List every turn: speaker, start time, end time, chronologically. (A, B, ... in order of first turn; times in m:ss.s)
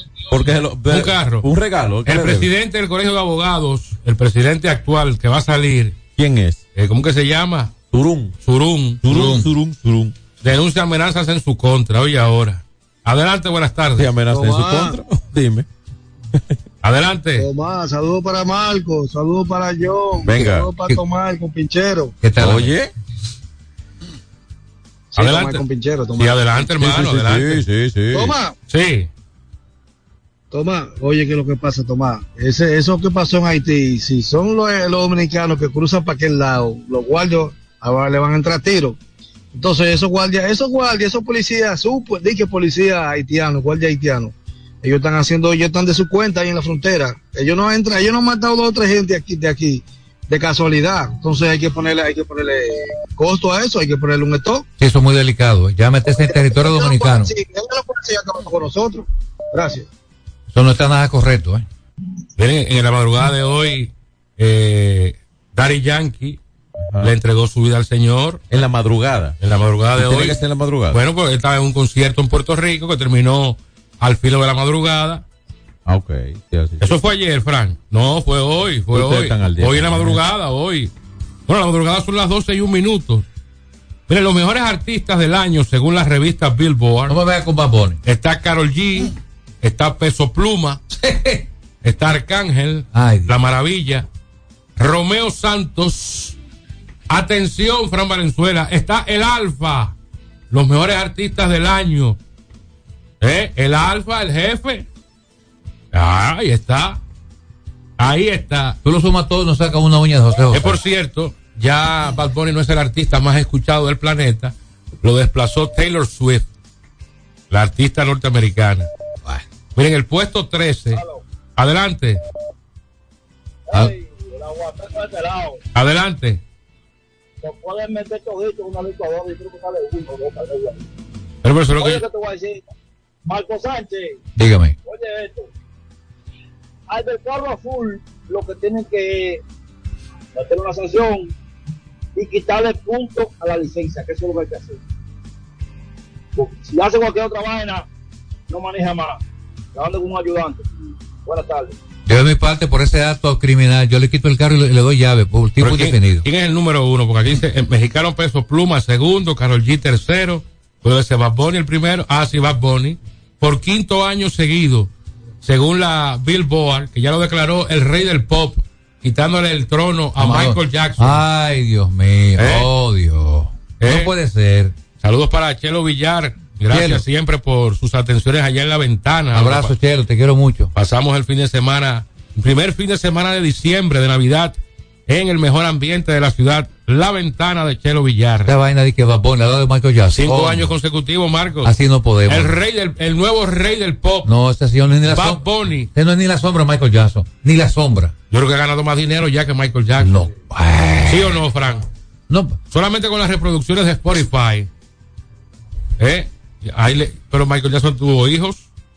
0:00.3-0:02.5 A
0:00.9-0:01.5 B
0:02.0-0:06.0 B
0:06.2-0:06.6 A
0:06.8-0:07.7 B
0:07.9-0:08.4 A
0:08.4-0:09.0 B
0:09.0-0:10.1 A
0:09.1-0:09.4 C
0:10.4-0:14.1 B
0:14.0-0:15.6 A
0:14.3-0:15.0 D
0:16.8-0:17.5 B
0:17.4-0:22.2 D
0:20.2-0:21.0 A
0:22.2-0:22.7 C
0:22.4-0:22.9 A
0:25.1-0:26.7 D
0:25.2-0:25.6 B
0:26.2-0:27.6 B
0:26.8-0:28.4 A
0:28.1-0:28.5 D
0:28.7-0:29.1 B
0:30.5-0:39.0 D
0:39.5-0:54.6 D
0:54.8-0:57.3 C
0:56.0-0:59.9 D
1:00.5-1:01.6 C
1:02.4-1:06.4 B
1:06.8-1:07.1 A
1:07.0-1:08.4 B
1:08.5-1:09.4 A
1:09.4-1:10.4 B
1:10.0-1:11.0 A
1:10.9-1:15.2 B
1:15.8-1:17.0 A
1:16.8-1:20.9 B
1:18.9-1:20.2 A
1:21.5-1:23.2 B
1:24.1-1:27.1 B
1:27.1-1:28.0 C
1:28.0-1:30.8 B
1:30.9-1:31.4 C
1:31.8-1:34.0 B
1:32.9-1:33.3 C
1:34.8-1:36.4 B
1:37.1-1:39.9 B
1:40.5-1:42.2 B
1:43.2-1:44.9 B
1:45.9-1:47.0 B
1:48.0-1:48.8 B
1:48.8-1:50.8 C
1:50.5-1:56.5 B
1:57.5-1:58.9 B
1:59.7-2:01.0 B
2:00.9-2:01.2 E
2:01.6-2:02.2 B
2:03.7-2:05.6 E
2:05.7-2:06.4 B
2:07.4-2:10.9 E
2:11.4-2:12.0 B
2:11.8-2:12.6 E
2:13.2-2:14.2 E
2:14.4-2:14.7 C
2:14.8-2:15.5 E
2:16.9-2:19.4 E
2:20.3-2:21.3 E
2:22.1-2:24.8 E
2:26.4-2:27.8 E
2:28.5-2:29.2 E
2:29.7-2:31.8 E
2:32.0-2:36.2 C
2:35.6-2:44.9 B
2:45.4-2:51.2 B
2:50.2-2:54.7 C
2:52.4-2:52.7 B
2:53.8-2:54.1 B
2:55.0-2:59.7 B
2:56.7-2:57.0 C
2:59.3-3:00.7 C
3:00.7-3:08.5 B
3:08.4-3:10.7 C
3:10.1-3:11.7 B
3:11.6-3:12.6 C
3:12.3-3:14.3 B
3:14.2-3:18.1 C
3:15.1-3:15.9 B
3:18.3-3:20.3 B
3:20.0-3:21.4 C
3:21.1-3:21.8 B
3:22.3-3:22.6 C
3:22.7-3:24.7 B
3:26.0-3:28.7 B